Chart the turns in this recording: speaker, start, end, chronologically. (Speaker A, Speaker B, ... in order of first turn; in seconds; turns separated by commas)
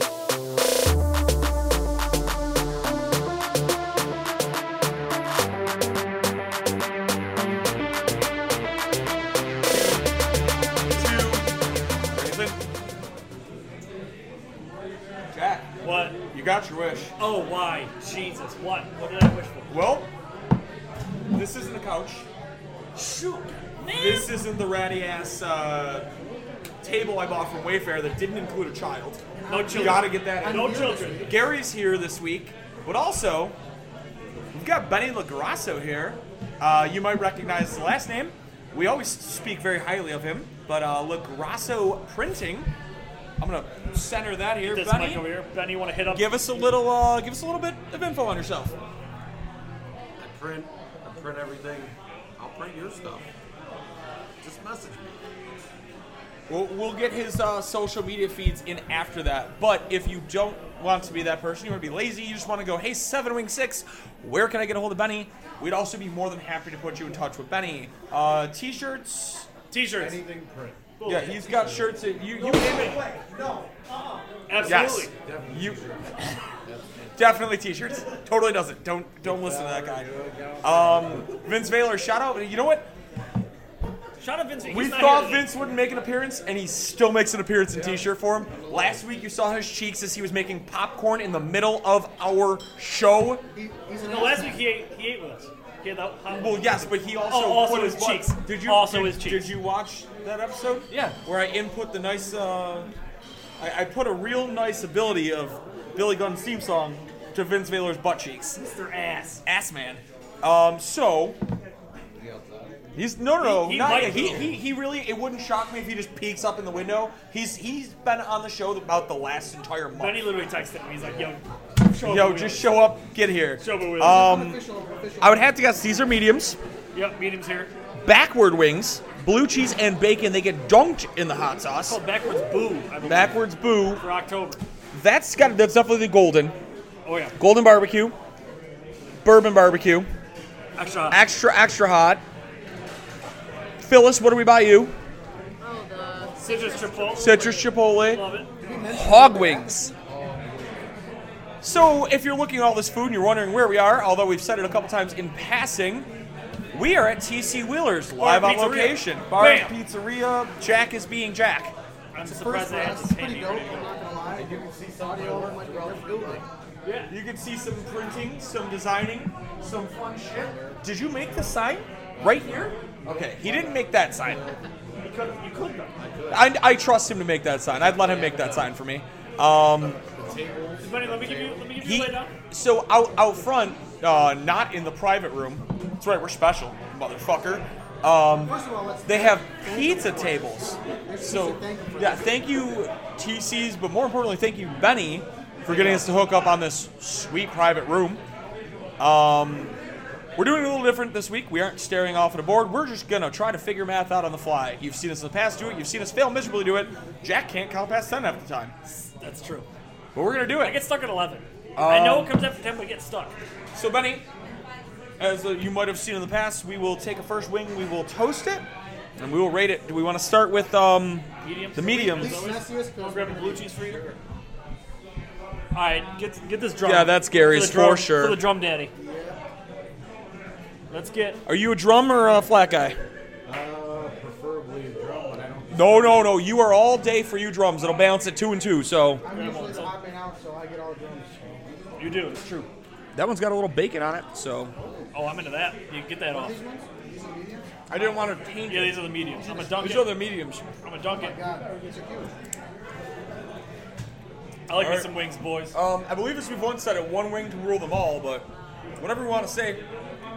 Speaker A: 10.9-11.4, Speaker A: 12.1-12.6, Speaker A: 15.3-15.7, Speaker B: 15.8-16.2, Speaker A: 16.3-17.1, Speaker B: 17.2-19.8, Speaker A: 19.7-20.1, Speaker A: 21.3-22.3, Speaker B: 22.9-24.3, Speaker A: 23.9-26.1, Speaker A: 26.8-33.5, Speaker C: 29.4-31.3, Speaker B: 29.5-31.3, Speaker A: 34.5-42.7, Speaker A: 43.4-45.3, Speaker B: 44.6-46.3, Speaker A: 46.1-48.8, Speaker D: 50.2-53.3, Speaker D: 54.4-55.2, Speaker A: 56.5-69.5, Speaker B: 69.7-70.2, Speaker D: 69.9-72.0, Speaker B: 71.0-71.7, Speaker A: 71.0-73.4, Speaker B: 72.3-73.0, Speaker B: 74.5-75.1, Speaker D: 74.5-77.5, Speaker A: 74.6-76.3, Speaker A: 77.1-80.1, Speaker D: 79.2-81.4, Speaker A: 80.6-82.9, Speaker B: 84.2-85.5, Speaker A: 84.7-93.4, Speaker D: 87.7-89.0, Speaker C: 93.5-94.6, Speaker B: 94.0-99.5, Speaker A: 96.3-102.9, Speaker B: 100.9-101.2, Speaker A: 103.6-108.6, Speaker B: 108.6-109.4, Speaker A: 109.4-111.4, Speaker D: 112.1-112.8, Speaker A: 112.9-120.3, Speaker B: 113.4-114.5, Speaker D: 113.9-114.5, Speaker B: 119.9-122.8, Speaker D: 121.0-121.3, Speaker A: 122.0-124.6, Speaker B: 123.6-124.2, Speaker C: 124.0-125.5, Speaker A: 125.2-126.6, Speaker B: 126.9-127.7, Speaker A: 128.0-132.0, Speaker B: 131.8-134.6, Speaker A: 133.0-134.0, Speaker A: 134.9-136.5, Speaker B: 137.0-137.4, Speaker A: 137.4-138.2, Speaker A: 139.2-140.1, Speaker B: 140.8-141.2, Speaker A: 141.1-142.2, Speaker A: 143.8-144.9, Speaker E: 145.6-147.8, Speaker B: 146.4-148.5, Speaker A: 147.2-148.2, Speaker C: 148.6-149.9, Speaker A: 148.9-149.9, Speaker D: 150.0-151.0, Speaker A: 151.6-156.1, Speaker A: 156.7-161.7, Speaker B: 158.2-159.7, Speaker B: 162.1-164.0, Speaker C: 162.2-166.4, Speaker D: 164.3-166.5, Speaker B: 166.8-167.1, Speaker A: 167.1-174.4, Speaker D: 170.3-170.8, Speaker D: 172.1-175.4, Speaker B: 175.0-175.9, Speaker D: 175.9-176.5, Speaker A: 176.3-180.0, Speaker D: 177.7-178.8, Speaker D: 179.5-181.7, Speaker B: 180.8-182.3, Speaker A: 181.8-198.2, Speaker C: 188.4-192.3, Speaker B: 195.7-196.0, Speaker A: 199.0-199.7, Speaker A: 200.3-208.7, Speaker B: 208.8-209.7, Speaker A: 210.1-210.8, Speaker B: 210.6-213.3, Speaker A: 211.8-212.4, Speaker A: 213.7-214.2, Speaker A: 215.2-218.7, Speaker A: 219.2-222.4, Speaker B: 221.4-224.0, Speaker C: 222.1-223.7, Speaker D: 223.7-224.2, Speaker B: 225.7-228.9, Speaker A: 226.8-228.4, Speaker C: 228.9-229.4, Speaker B: 230.9-231.4, Speaker A: 231.4-233.0, Speaker D: 233.4-236.4, Speaker A: 235.7-239.2, Speaker C: 239.2-241.6, Speaker B: 239.2-240.0, Speaker B: 242.0-242.4, Speaker A: 242.4-244.7, Speaker B: 245.1-246.5, Speaker C: 246.3-247.7, Speaker A: 247.9-249.1, Speaker B: 248.7-250.2, Speaker C: 249.4-249.8, Speaker A: 249.8-250.6, Speaker B: 250.8-251.3, Speaker C: 251.1-252.3, Speaker B: 254.7-255.8, Speaker A: 254.7-255.1, Speaker A: 255.7-259.8